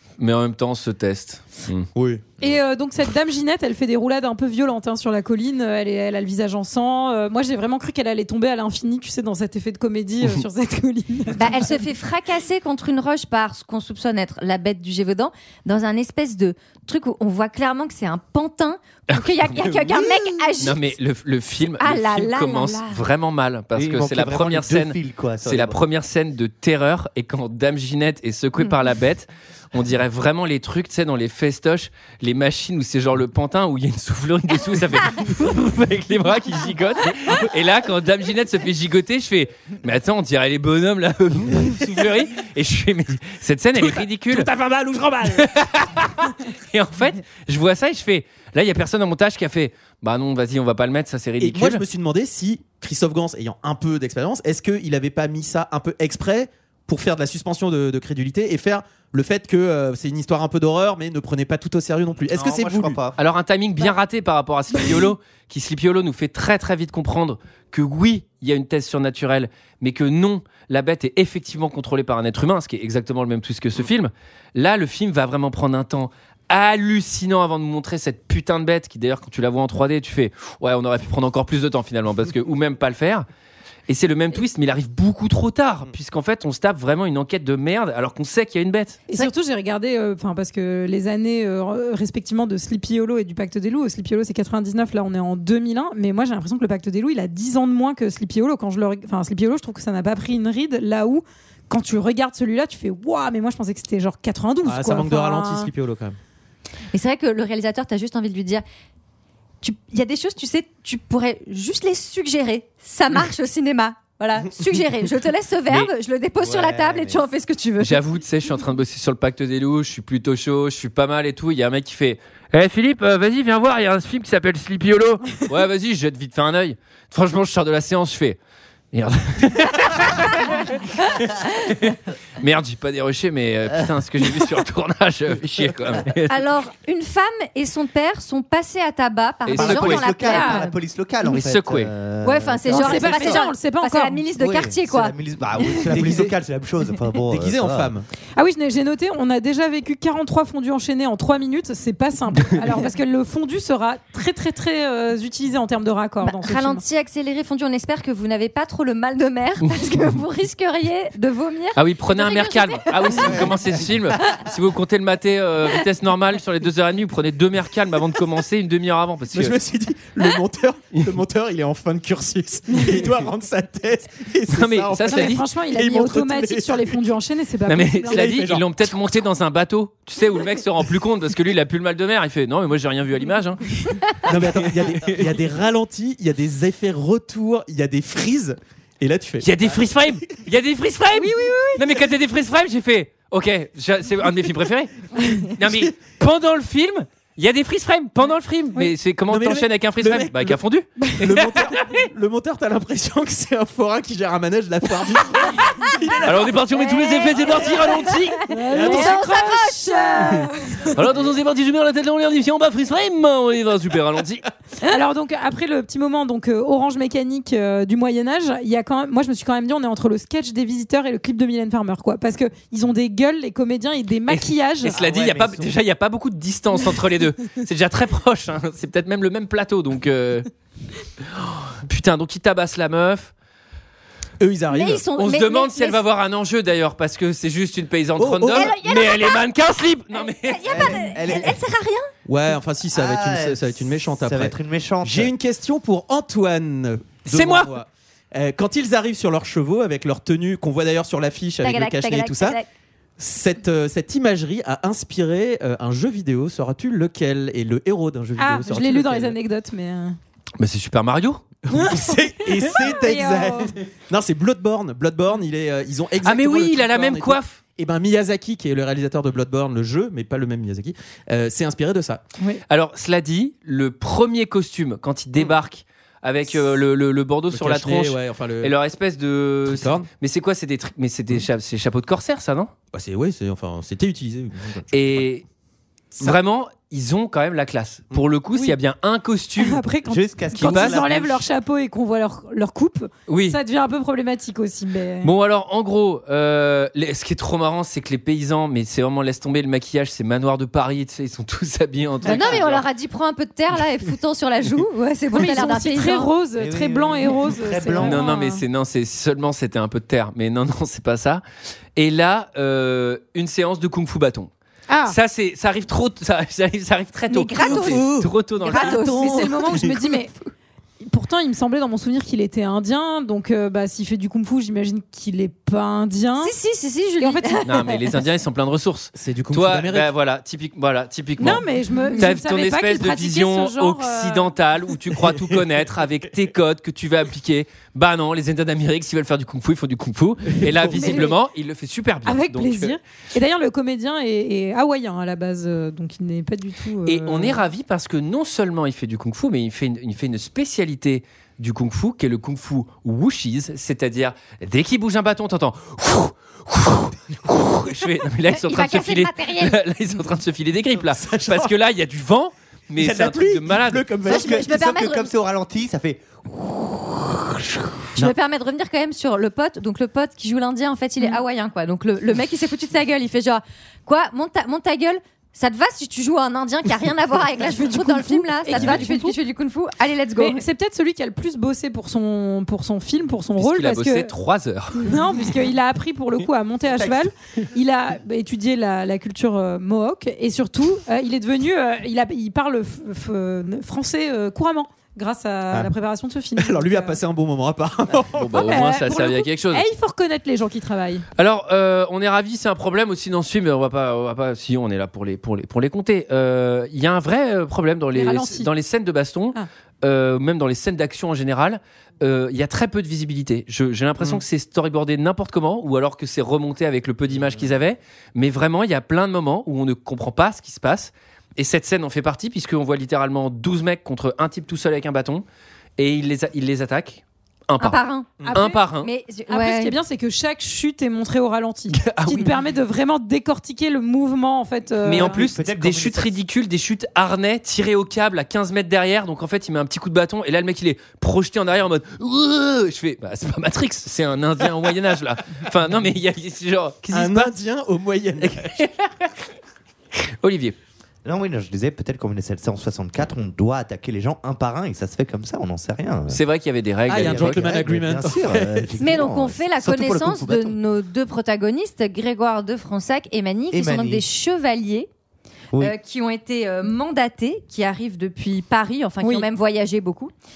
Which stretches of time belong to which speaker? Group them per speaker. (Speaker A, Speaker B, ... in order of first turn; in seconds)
Speaker A: 0.2-1.9, 19.1-19.9, 20.6-44.5, 45.4-51.8, 63.2-83.2, 83.9-89.0, 117.8-128.4, 128.9-136.4, 139.4-140.2, 141.3-141.9, 159.7-160.1, 161.7-169.6, 174.5-175.4, 177.7-185.3, 189.4-201.9, 206.2-209.1, 210.9-214.4, 224.3-230.5, 231.8-233.3, 235.2-240.6, 247.3-247.7, 260.6-261.4, 266.2-267.6, 272.7-282.7, 284.9-285.4, 286.2-289.8, 290.6-291.0, 293.3-293.6, 295.2-302.8, 308.0-311.4, 311.9-314.5, 315.0-319.2, 327.6-343.0, 347.0-364.1, 383.6-385.1, 398.3-399.9, 401.4-425.4, 426.0-429.1, 431.9-432.5, 435.0-447.5, 448.4-449.4, 450.1-450.8, 456.3-457.7
Speaker B: 1.9-2.4, 43.8-45.5, 51.4-63.0, 104.6-106.2, 145.9-146.3, 147.3-148.1, 169.3-177.0, 178.1-179.0, 184.2-189.8, 195.6-195.9, 199.3-200.6, 201.2-206.5, 207.5-207.8, 208.7-209.2, 225.0-225.6, 234.4-235.0, 238.2-238.7, 242.2-252.6, 253.2-259.3, 261.7-272.2, 277.5-278.7, 279.7-280.1, 282.9-284.8, 317.6-318.3, 329.1-330.1, 335.1-335.7, 340.5-341.3, 361.1-361.7, 363.0-364.7, 396.6-398.7, 447.1-448.7, 457.1-458.9
Speaker C: 2.4-11.8, 89.1-105.7, 140.2-140.6, 142.7-144.2, 148.4-156.8, 175.0-178.3, 191.1-191.9, 208.5-210.9, 214.8-224.9, 258.4-260.2, 261.8-263.7, 289.6-295.3, 305.3-308.6, 314.9-315.1, 318.7-320.3, 321.0-326.5, 327.2-327.9, 331.4-334.5, 340.9-341.4, 342.2-347.6, 377.7-379.4, 380.4-384.3, 385.0-397.2, 398.6-401.2, 408.1-408.7, 428.4-428.8, 429.5-435.4, 469.2-469.5
Speaker D: 11.3-20.9, 21.8-23.0, 106.9-108.6, 109.6-118.0, 136.3-140.8, 142.2-145.1, 156.2-163.5, 206.7-210.5, 234.7-236.0, 238.5-239.4, 240.1-242.1, 251.6-252.7, 302.2-306.3, 317.3-319.9, 326.4-328.0, 358.5-359.8, 364.3-365.3, 368.1-380.6, 427.8-429.9, 459.0-465.1, 465.7-470.3
Speaker E: 23.7-25.8, 62.3-63.2, 116.4-117.2, 139.5-143.4, 144.3-147.9, 240.7-241.6, 242.9-245.3, 290.0-291.5, 302.2-302.6, 306.6-308.2, 364.2-367.9, 386.9-387.3, 435.1-436.3, 451.2-456.4, 457.1-460.8, 463.7-464.2